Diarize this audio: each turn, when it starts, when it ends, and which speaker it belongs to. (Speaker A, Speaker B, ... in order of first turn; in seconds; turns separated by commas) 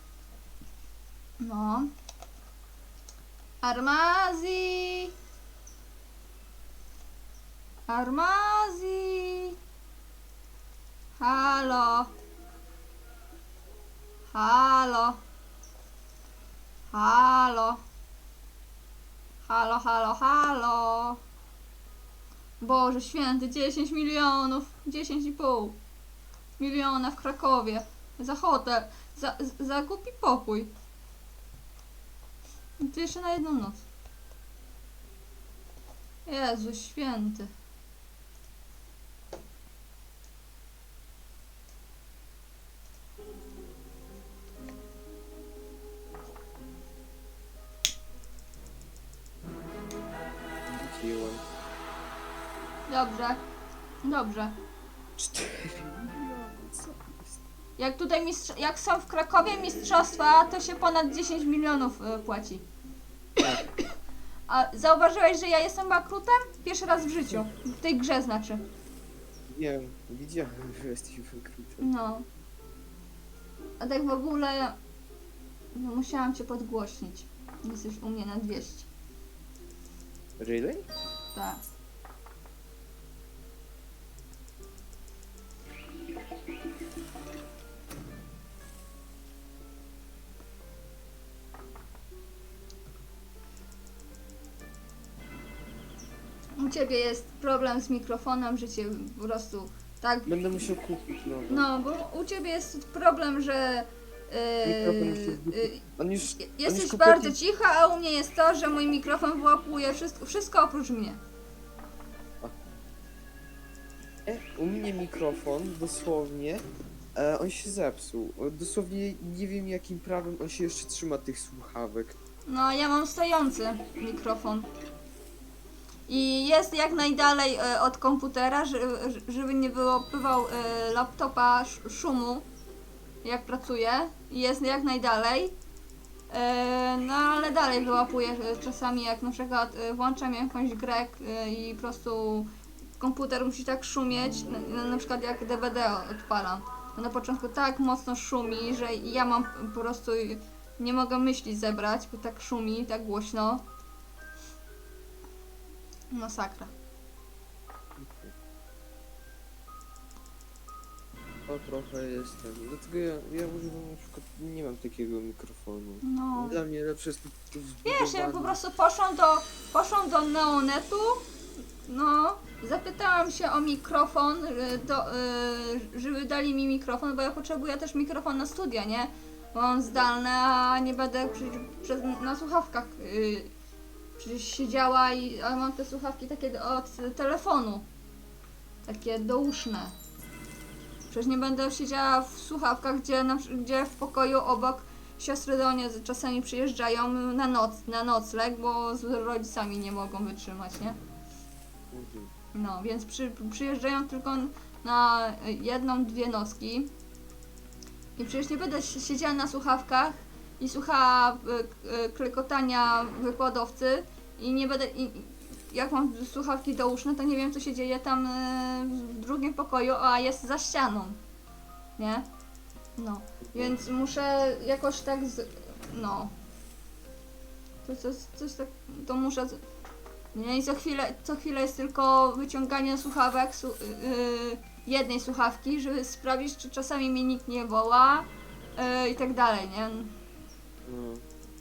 Speaker A: 1.4-1.9, Speaker A: 3.6-5.1, Speaker A: 7.9-9.6, Speaker A: 11.2-12.1, Speaker A: 14.3-15.2, Speaker A: 16.9-17.8, Speaker A: 19.4-21.2, Speaker A: 22.6-25.8, Speaker A: 26.6-30.7, Speaker A: 32.8-33.8, Speaker A: 36.2-37.5, Speaker B: 50.7-51.4, Speaker A: 52.9-53.4, Speaker A: 54.0-54.5, Speaker B: 55.2-57.4, Speaker A: 57.8-62.6, Speaker A: 64.5-68.6, Speaker B: 69.5-71.9, Speaker A: 71.8-72.2, Speaker A: 73.8-74.8, Speaker A: 75.7-78.9, Speaker B: 80.4-80.9, Speaker A: 81.3-81.6, Speaker A: 96.6-100.7, Speaker B: 100.2-101.7, Speaker A: 101.5-111.2, Speaker B: 104.6-107.4, Speaker B: 114.2-122.2, Speaker A: 122.5-124.7, Speaker A: 126.1-132.4, Speaker A: 133.2-135.6, Speaker A: 136.3-142.5, Speaker A: 143.0-153.6, Speaker A: 156.1-156.7, Speaker B: 158.0-158.3, Speaker B: 161.5-168.6, Speaker A: 166.0-166.6, Speaker A: 167.8-171.2, Speaker A: 171.8-183.5, Speaker A: 184.2-187.8, Speaker A: 188.8-189.9, Speaker A: 191.1-201.0, Speaker B: 201.9-202.3, Speaker A: 202.5-206.9, Speaker A: 208.2-221.2, Speaker A: 222.0-222.3, Speaker A: 223.0-226.3, Speaker B: 223.4-223.8, Speaker A: 227.8-229.6, Speaker A: 230.3-240.1, Speaker B: 240.8-241.2